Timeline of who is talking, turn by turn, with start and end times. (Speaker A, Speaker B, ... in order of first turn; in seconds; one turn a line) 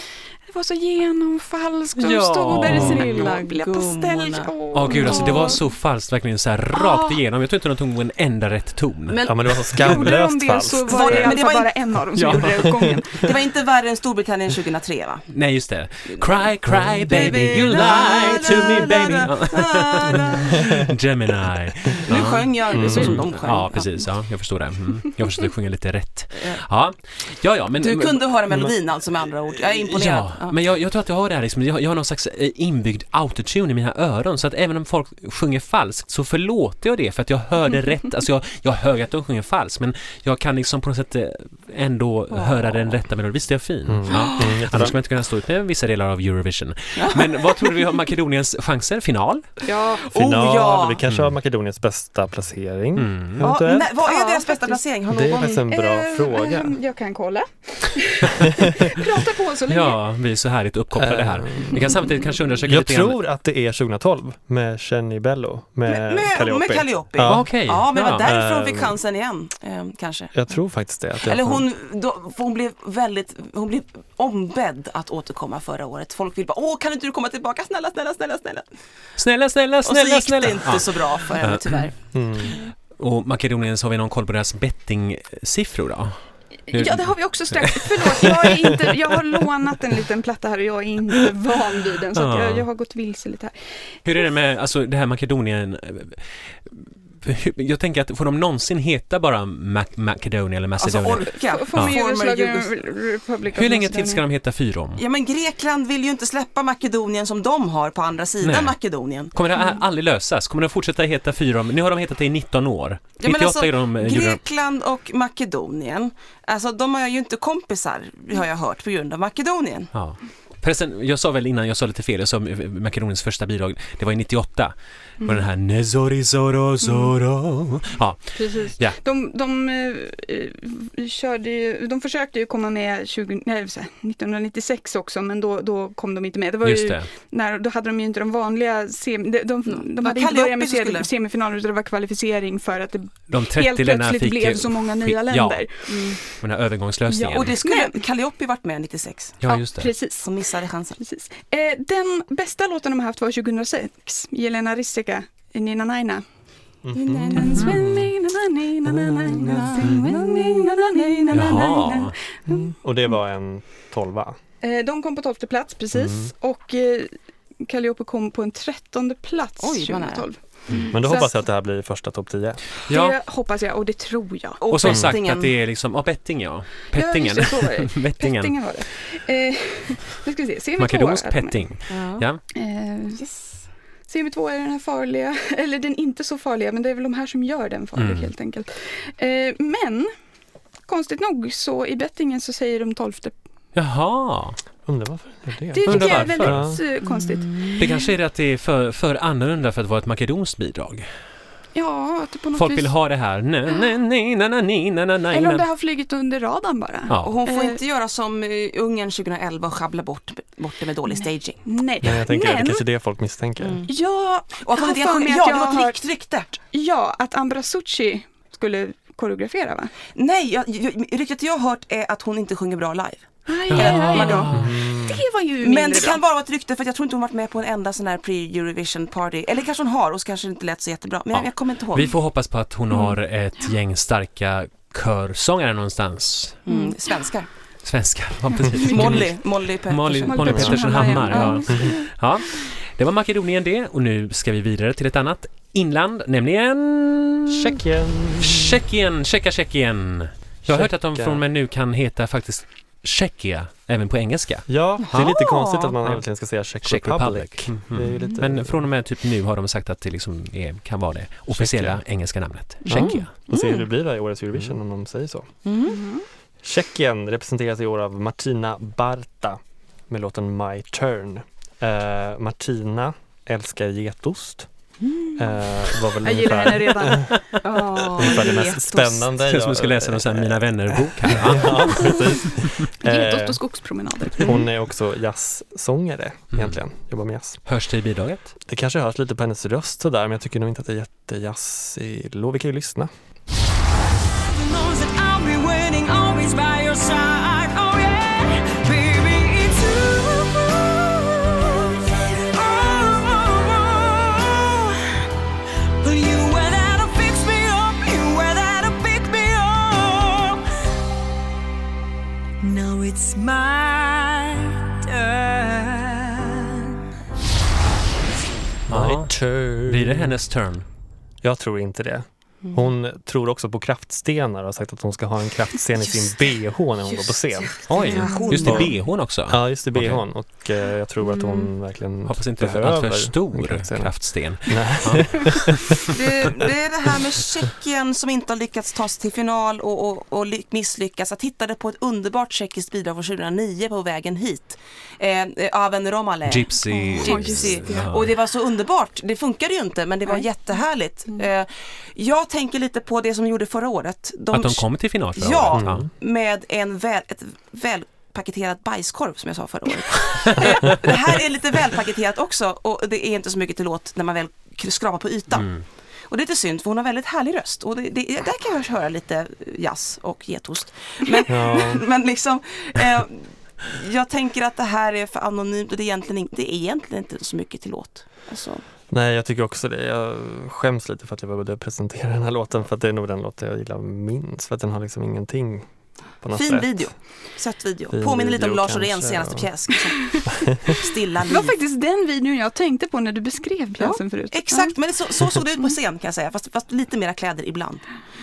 Speaker A: 0.4-5.6
Speaker B: 2.0-3.2
Speaker C: 2.6-5.6
Speaker D: 2.7-3.0
Speaker B: 4.7-9.2
Speaker A: 6.7-7.2
Speaker C: 9.1-10.1
Speaker D: 9.2-11.4
Speaker A: 9.8-13.3
Speaker C: 10.9-11.7
Speaker B: 12.2-12.8
Speaker C: 13.1-15.3
Speaker B: 15.3-28.7
Speaker D: 16.9-17.3
Speaker C: 17.1-20.9
Speaker D: 20.6-20.9
Speaker C: 21.9-23.9
Speaker D: 22.7-23.2
Speaker C: 27.8-30.6
Speaker B: 29.6-49.5
Speaker C: 42.4-42.7
Speaker D: 43.9-44.9
Speaker C: 47.0-47.8
Speaker A: 49.6-50.0
Speaker C: 50.0-51.0
Speaker D: 50.1-53.9
Speaker B: 51.1-51.3
Speaker B: 53.0-53.4
Speaker C: 53.4-55.6
Speaker A: 53.8-54.8
Speaker D: 55.1-56.8
Speaker A: 55.7-60.0
Speaker B: 59.7-63.2
Speaker D: 60.9-61.8
Speaker D: 62.6-69.0
Speaker C: 65.9-70.3
Speaker B: 67.2-68.3
Speaker D: 70.3-71.6
Speaker C: 71.2-78.7
Speaker B: 79.2-81.9
Speaker C: 79.8-82.7
Speaker D: 82.1-82.6
Speaker B: 83.0-86.2
Speaker A: 86.7-93.5
Speaker B: 86.7-88.8
Speaker B: 92.1-92.6
Speaker B: 94.1-102.0
Speaker C: 100.8-102.7
Speaker A: 101.4-104.2
Speaker B: 103.5-105.0
Speaker C: 105.0-109.3
Speaker B: 108.4-108.8
Speaker B: 109.3-114.4
Speaker C: 113.2-119.9
Speaker B: 119.9-129.0
Speaker A: 126.8-127.1
Speaker A: 128.4-146.2
Speaker B: 136.6-137.1
Speaker C: 139.7-141.1
Speaker B: 143.3-145.7
Speaker C: 145.9-146.2
Speaker B: 146.3-147.6
Speaker A: 147.1-148.0
Speaker C: 147.2-149.4
Speaker B: 149.4-149.9
Speaker A: 149.4-150.3
Speaker C: 150.2-151.0
Speaker A: 151.0-156.2
Speaker D: 156.8-158.1
Speaker C: 156.9-157.8
Speaker A: 157.3-162.7
Speaker D: 158.9-160.0
Speaker C: 159.2-161.6
Speaker B: 161.3-162.1
Speaker D: 162.5-164.4
Speaker A: 164.6-171.4
Speaker D: 165.9-166.3
Speaker C: 169.6-170.3
Speaker D: 170.9-172.6
Speaker B: 172.9-173.2
Speaker A: 172.9-174.6
Speaker C: 174.6-175.5
Speaker B: 174.7-178.7
Speaker D: 174.9-175.2
Speaker A: 176.9-181.7
Speaker B: 180.8-182.4
Speaker C: 181.9-182.2
Speaker A: 182.5-183.2
Speaker A: 184.1-190.1
Speaker B: 188.0-188.3
Speaker A: 190.9-193.3
Speaker B: 193.8-194.6
Speaker D: 194.9-196.8
Speaker A: 195.7-197.8
Speaker B: 195.9-196.8
Speaker C: 197.0-198.1
Speaker B: 197.8-201.1
Speaker A: 201.8-202.9
Speaker B: 202.6-205.6
Speaker A: 205.3-207.8
Speaker C: 207.2-211.6
Speaker A: 211.2-212.8
Speaker D: 212.0-213.9
Speaker C: 213.6-213.9
Speaker A: 213.9-216.0
Speaker C: 214.6-216.6
Speaker A: 216.7-219.9
Speaker C: 220.1-224.7
Speaker A: 223.4-226.2
Speaker B: 223.7-224.8
Speaker D: 224.5-225.2
Speaker C: 225.6-232.1
Speaker B: 231.3-236.6
Speaker C: 236.6-237.5
Speaker A: 236.7-236.9
Speaker B: 237.8-247.8
Speaker A: 238.5-239.2
Speaker C: 238.9-241.6
Speaker A: 240.2-242.1
Speaker D: 240.5-240.8
Speaker D: 241.7-241.9
Speaker D: 247.5-248.8
Speaker B: 248.4-255.4
Speaker D: 250.7-251.4
Speaker D: 254.7-258.9
Speaker C: 255.0-256.0
Speaker B: 256.8-263.3
Speaker D: 261.5-262.0
Speaker C: 262.9-263.9
Speaker D: 262.9-265.5
Speaker C: 265.6-266.0
Speaker A: 265.9-266.2
Speaker D: 266.6-274.7
Speaker D: 275.4-277.4
Speaker A: 276.2-277.3
Speaker C: 277.6-279.3
Speaker D: 278.1-283.6
Speaker B: 279.4-282.7
Speaker A: 281.9-284.5
Speaker D: 284.4-287.6
Speaker B: 287.6-288.5
Speaker D: 288.7-293.1
Speaker E: 294.3-305.1
Speaker E: 306.0-310.6
Speaker E: 312.6-316.8
Speaker D: 318.9-320.4
Speaker B: 318.9-320.9
Speaker D: 321.4-327.9
Speaker C: 326.0-326.3
Speaker C: 327.1-329.0
Speaker B: 327.9-330.2
Speaker E: 328.2-328.5
Speaker D: 328.5-336.1
Speaker B: 332.2-336.5
Speaker C: 336.1-365.7
Speaker B: 346.5-348.3
Speaker A: 346.9-348.1
Speaker B: 354.5-356.1
Speaker D: 355.7-356.1
Speaker B: 360.6-360.9
Speaker B: 365.5-365.8
Speaker C: 366.3-378.8
Speaker D: 371.5-372.1
Speaker D: 379.1-385.9
Speaker D: 386.4-387.1
Speaker C: 386.5-391.8
Speaker D: 388.1-389.7
Speaker D: 390.5-391.0
Speaker A: 391.5-394.9
Speaker C: 394.0-398.0